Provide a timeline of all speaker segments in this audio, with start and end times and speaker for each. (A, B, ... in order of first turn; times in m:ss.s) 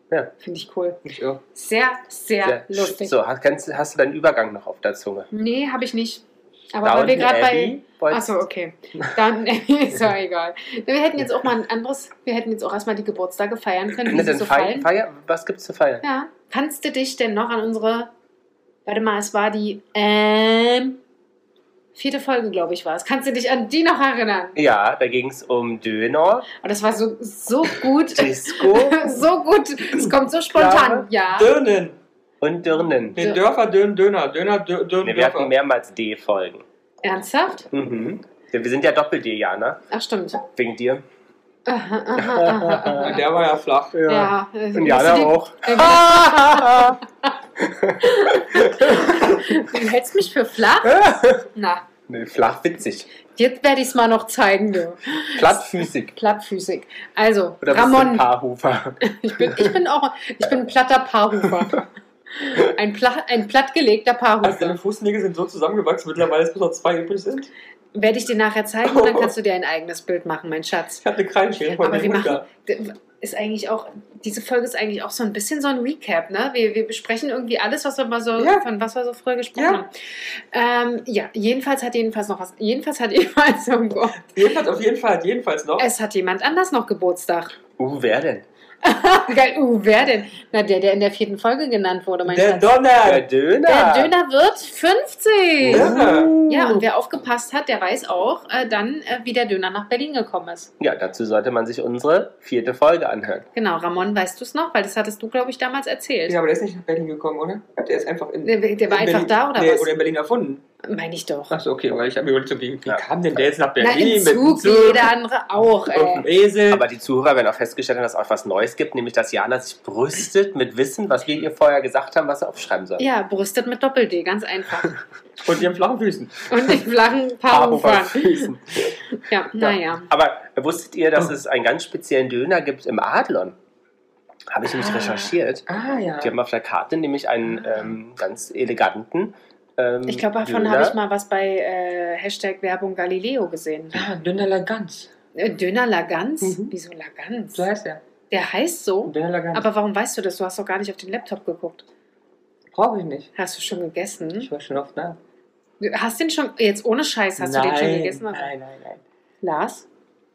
0:00.4-0:01.0 A
0:01.0-0:01.4 B
0:01.5-0:03.1 A
0:02.4-0:05.3 C
0:05.3-0:14.9 A
0:06.8-0:08.4 C
0:14.0-0:16.0 C
0:16.0-0:18.1 A
0:18.8-0:21.0 A
0:22.0-0:24.6 A
0:24.6-0:26.5 C
0:26.6-0:31.5 A
0:28.1-0:29.2 C
0:30.5-0:31.1 C
0:31.3-0:32.0 B
0:32.4-0:33.2 C
0:33.2-0:35.5 B
0:35.0-0:36.6 C
0:37.0-0:37.7 A
0:37.7-0:39.8 C
0:39.9-0:40.4 A
0:40.5-0:41.0 C
0:41.6-0:43.3 A
0:42.2-0:43.1 C
0:43.0-0:44.0 B
0:43.9-0:47.0 C
0:44.1-0:47.0 A
0:47.6-0:49.6 C
0:48.0-0:51.8 A
0:50.8-0:51.4 C
0:52.1-0:53.1 C
0:53.4-0:55.6 A
0:55.3-0:56.1 C
0:56.1-0:58.3 A
0:57.6-0:59.7 C
0:59.0-1:04.8 A
1:04.4-1:07.5 B
1:07.9-1:11.0 A
1:08.8-1:09.3 B
1:11.0-1:12.4 B
1:11.8-1:24.3 A
1:18.4-1:18.6 B
1:19.5-1:19.8 B
1:24.3-1:25.9 B
1:25.8-1:27.5 A
1:27.8-1:28.4 C
1:28.8-1:32.7 A
1:32.3-1:33.3 B
1:33.0-1:34.1 C
1:33.6-1:40.7 A
1:35.6-1:36.8 C
1:35.7-1:36.3 B
1:40.8-1:43.4 C
1:43.5-1:46.4 A
1:46.3-1:50.6 B
1:48.4-1:49.9 A
1:50.8-1:51.6 A
1:51.5-1:55.1 B
1:52.8-1:53.4 C
1:53.8-1:56.3 A
1:55.9-1:56.9 B
1:56.7-2:03.0 C
2:03.0-2:05.0 A
2:05.4-2:06.5 B
2:06.5-2:08.5 A
2:07.5-2:08.6 C
2:09.1-2:10.1 A
2:09.6-2:13.6 C
2:14.5-2:15.6 C
2:14.6-2:16.3 B
2:16.2-2:21.0 C
2:20.0-2:24.0 A
2:23.9-2:25.1 B
2:25.3-2:27.7 A
2:26.4-2:26.7 B
2:27.5-2:28.0 B
2:28.3-2:31.8 A
2:29.0-2:29.7 B
2:32.7-2:33.3 B
2:33.4-2:34.5 A
2:34.4-2:35.2 B
2:35.8-2:38.5 A
2:37.4-2:39.0 B
2:39.4-2:39.8 A